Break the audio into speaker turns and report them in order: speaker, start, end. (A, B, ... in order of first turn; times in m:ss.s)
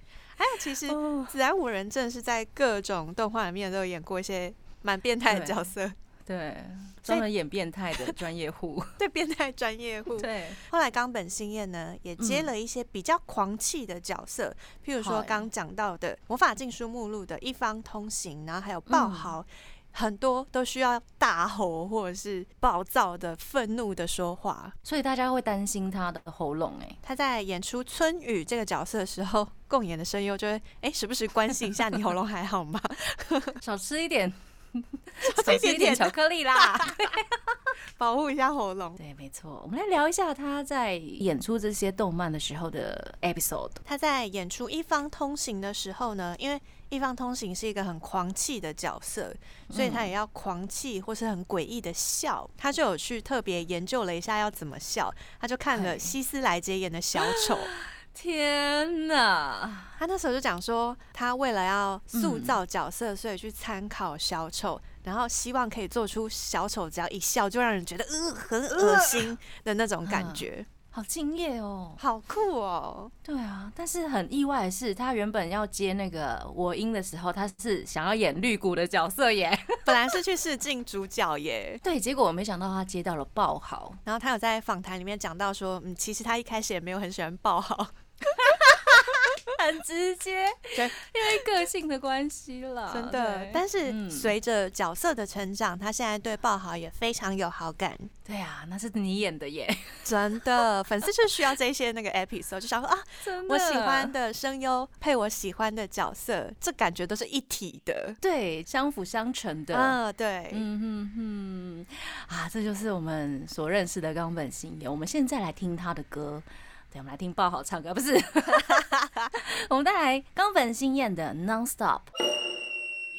0:00.4-0:06.0 A
0:00.9-0:01.3 B
0:05.3-0:05.7 B
0:06.3-0:09.0 B
0:09.0-0:24.8 A
0:10.2-0:10.6 B
0:12.2-0:12.5 B
0:15.0-0:15.5 B
0:18.9-0:19.4 B
0:24.8-0:27.0 B
0:27.0-0:33.6 A
0:33.6-0:37.4 B
0:35.2-0:37.0 A
0:37.9-0:39.0 A
0:39.0-0:43.8 B
0:43.9-0:57.7 A
0:49.7-0:50.1 B
0:55.8-0:56.2 B
0:57.2-1:00.0 B
1:00.0-1:10.7 A
1:02.1-1:02.6 B
1:08.7-1:09.3 B
1:10.0-1:12.0 B
1:12.0-1:13.1 A
1:13.2-1:19.9 B
1:19.9-1:21.8 A
1:21.8-1:24.0 B
1:24.0-1:29.3 A
1:28.4-1:34.3 B
1:30.8-1:31.4 A
1:32.9-1:38.1 A
1:38.3-1:40.1 B
1:40.0-1:48.2 A
1:43.2-1:44.2 B
1:48.2-1:50.0 B
1:49.7-1:50.7 A
1:50.5-2:02.1 B